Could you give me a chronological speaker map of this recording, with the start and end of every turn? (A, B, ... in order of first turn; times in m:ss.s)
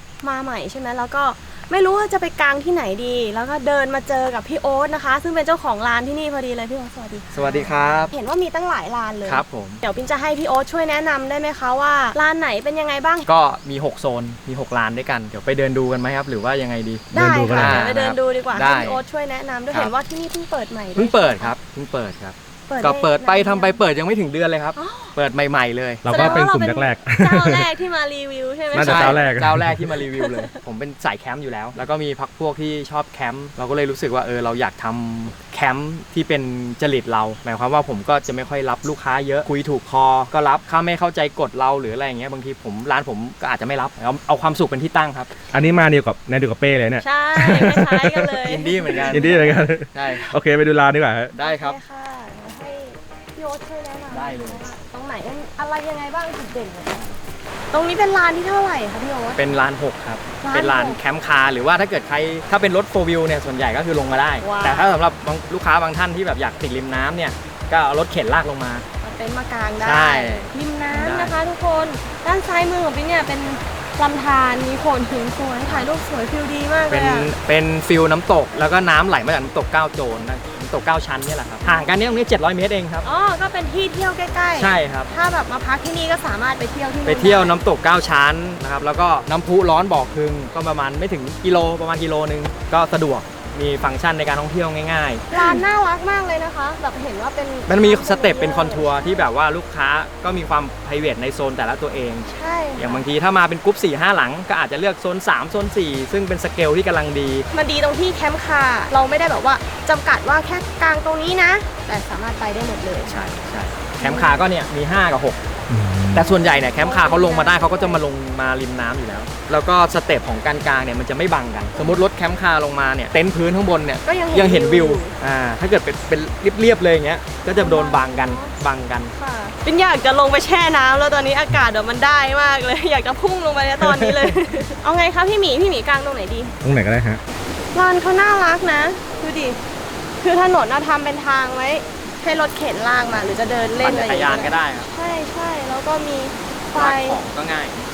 0:00.2-0:13.2 A
0:07.3-0:08.1 B
0:09.2-0:09.8 B
0:13.2-0:19.0 B
0:17.1-0:21.5 A
0:17.1-0:17.9 C
0:20.9-0:26.4 B
0:22.7-0:23.8 A
0:24.8-0:25.1 A
0:26.0-0:27.7 C
0:26.1-0:29.3 A
0:28.7-0:29.9 C
0:28.7-0:45.3 B
0:45.5-0:48.5 C
0:47.0-0:49.4 A
0:48.4-0:50.3 B
0:49.0-0:51.3 C
0:51.3-0:51.8 B
0:51.4-0:57.2 A
0:54.1-0:54.6 B
0:57.7-0:59.4 A
0:59.3-1:08.8 B
1:00.4-1:01.0 A
1:04.4-1:04.9 A
1:09.0-1:17.3 A
1:09.8-1:11.3 B
1:16.9-1:23.0 B
1:23.0-1:27.6 A
1:24.6-1:25.1 B
1:27.0-1:35.6 B
1:35.3-1:39.0 A
1:37.7-1:47.5 B
1:42.3-1:43.0 A
1:47.5-1:53.2 A
1:53.0-1:55.4 B
1:54.0-1:54.4 A
1:55.7-1:56.3 C
1:56.1-2:09.1 B
1:56.3-1:58.0 A
2:04.0-2:05.1 A
2:07.5-2:08.5 A
2:09.1-2:16.5 A
2:16.6-2:17.2 C
2:17.7-2:19.6 A
2:20.2-2:27.2 A
2:23.8-2:24.9 B
2:26.7-2:27.8 B